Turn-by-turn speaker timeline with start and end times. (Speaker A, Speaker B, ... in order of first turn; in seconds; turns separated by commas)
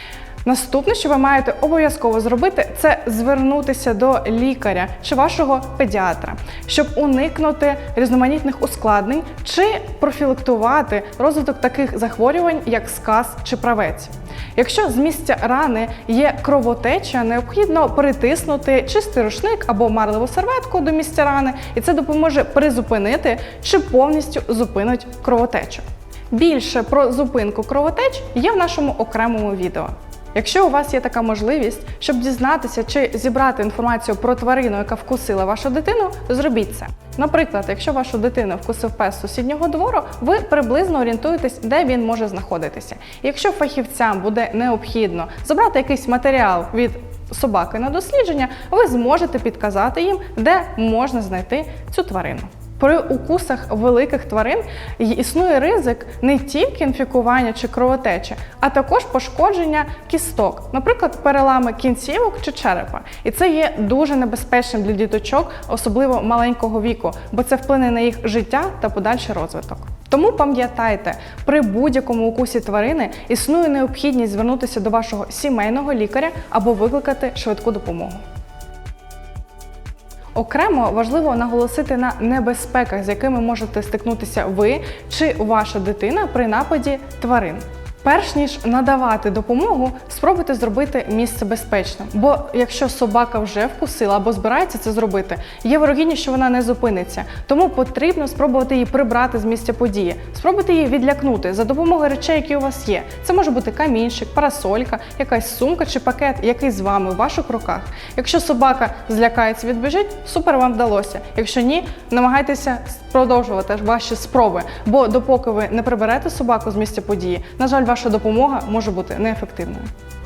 Speaker A: 0.4-78.2, Speaker A: 80.3-119.9